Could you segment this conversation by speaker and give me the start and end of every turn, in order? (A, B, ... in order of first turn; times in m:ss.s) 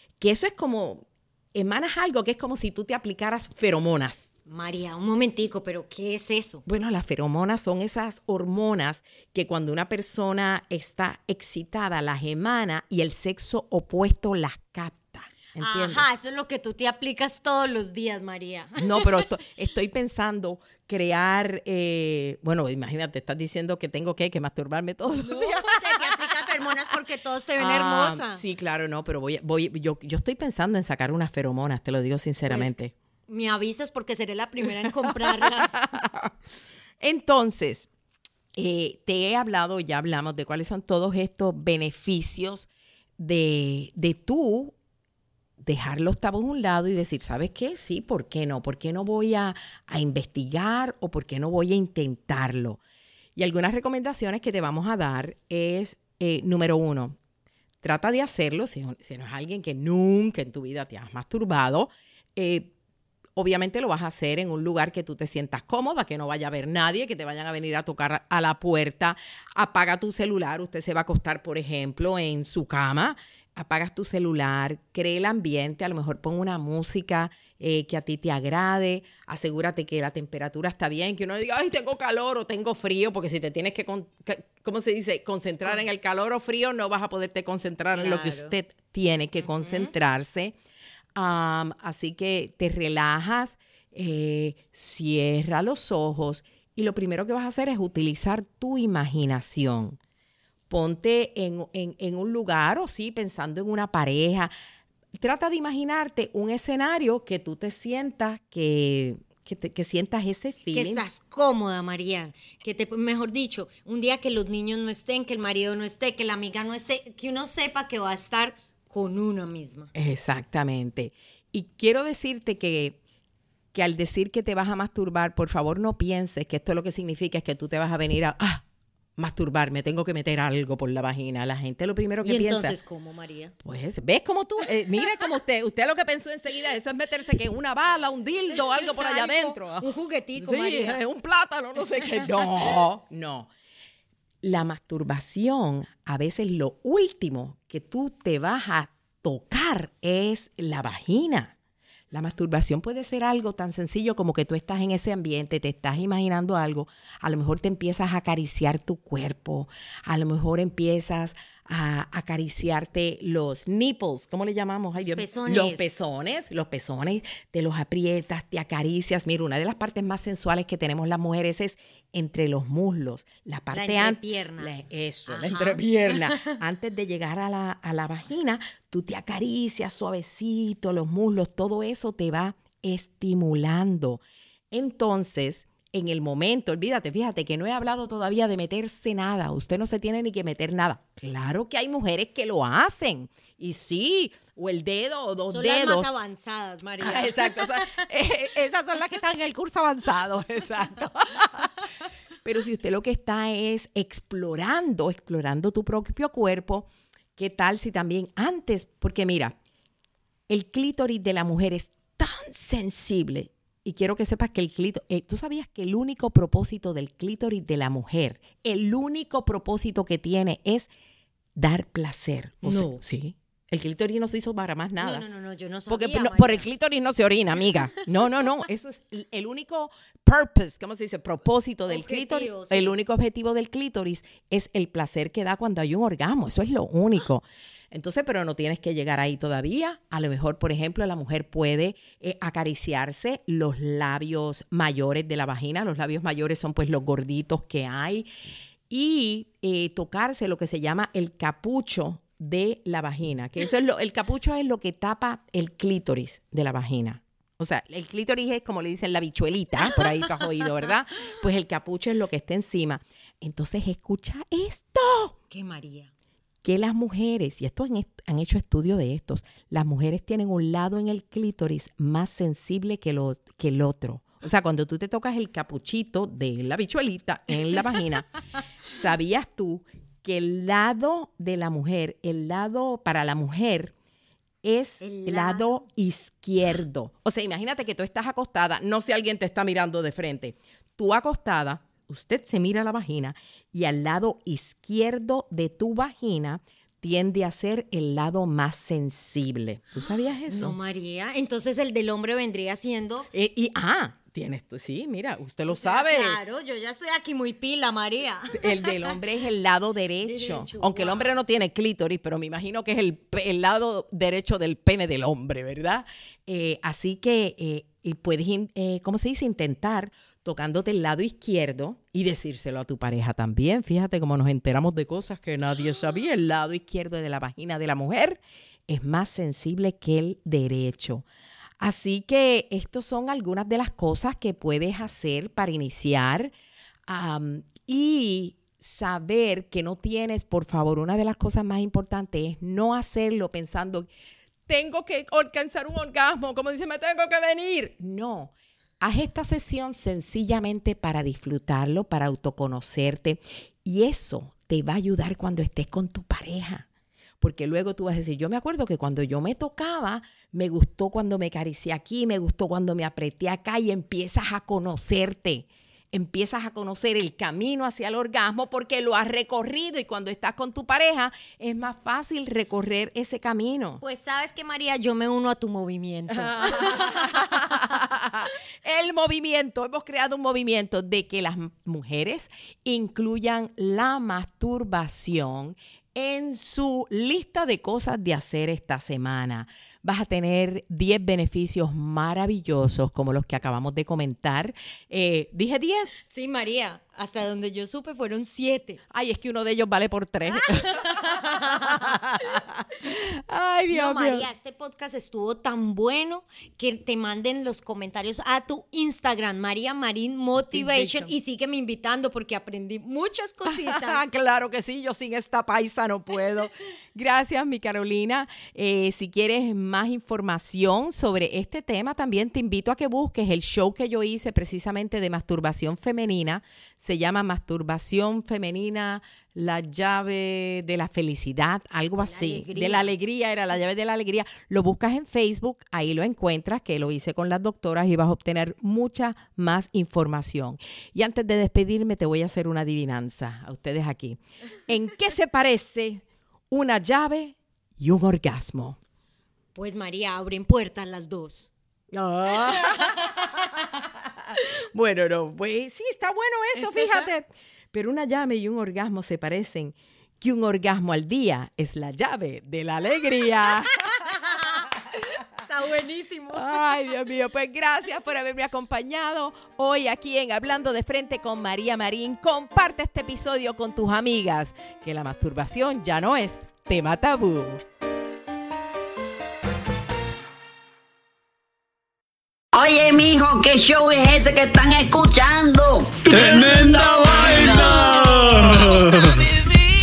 0:00.2-0:04.3 A
0:04.5-0:06.6 B
0:06.7-0:16.0 A
0:15.6-0:19.2 B
0:18.8-0:26.3 A
0:25.2-0:28.4 B
0:27.6-0:32.9 A
0:32.5-0:32.7 B
0:33.3-0:35.8 B
0:34.8-0:36.3 A
0:37.0-0:37.9 A
0:38.6-0:44.8 A
0:45.6-0:52.8 A
0:53.4-0:57.2 A
0:57.8-1:02.7 A
1:03.4-1:30.6 A
1:28.0-1:28.6 B
1:29.4-1:29.9 B
1:31.2-1:40.0 A
1:40.7-1:44.5 A
1:45.2-1:51.0 A
1:50.7-1:59.9 B
2:00.0-2:03.0 A
2:03.7-2:08.6 A
2:09.2-2:12.8 A
2:12.2-2:13.5 B
2:13.6-2:23.5 A
2:18.7-2:21.0 B
2:24.4-2:31.5 A
2:32.1-3:04.2 A
2:45.0-2:45.9 B
2:53.7-2:54.7 B
2:55.3-2:56.6 B
3:04.7-3:16.1 A
3:15.5-3:18.1 B
3:17.0-3:21.7 A
3:22.4-3:29.6 A
3:30.5-3:40.9 A
3:41.6-3:45.2 A
3:42.6-3:43.0 B
3:45.0-3:46.7 B
3:45.9-4:08.3 A
3:51.9-3:53.0 B
4:08.9-4:25.4 A
4:25.5-4:26.1 B
4:26.6-4:38.3 A
4:38.9-4:43.9 A
4:44.6-5:00.8 A
4:45.0-4:45.8 B
5:00.5-5:03.3 B
5:03.3-5:06.4 A
5:05.7-5:09.2 B
5:08.5-5:31.3 A
5:10.2-5:11.4 B
5:31.8-5:36.5 A
5:37.1-5:44.1 A
5:44.7-5:56.9 A
5:57.4-6:14.0 A
6:14.0-6:17.8 B
6:16.3-6:36.2 A
6:36.2-6:39.0 B
6:39.1-6:44.5 A
6:40.9-6:42.2 B
6:43.9-6:54.2 B
6:50.7-6:51.3 A
6:53.7-7:29.0 A
7:12.2-7:13.1 B
7:29.8-7:31.7 B
7:32.1-7:33.7 A
7:34.5-7:44.9 A
7:44.1-7:44.8 B
7:45.4-7:46.8 B
7:46.5-7:57.8 A
8:02.7-8:09.6 C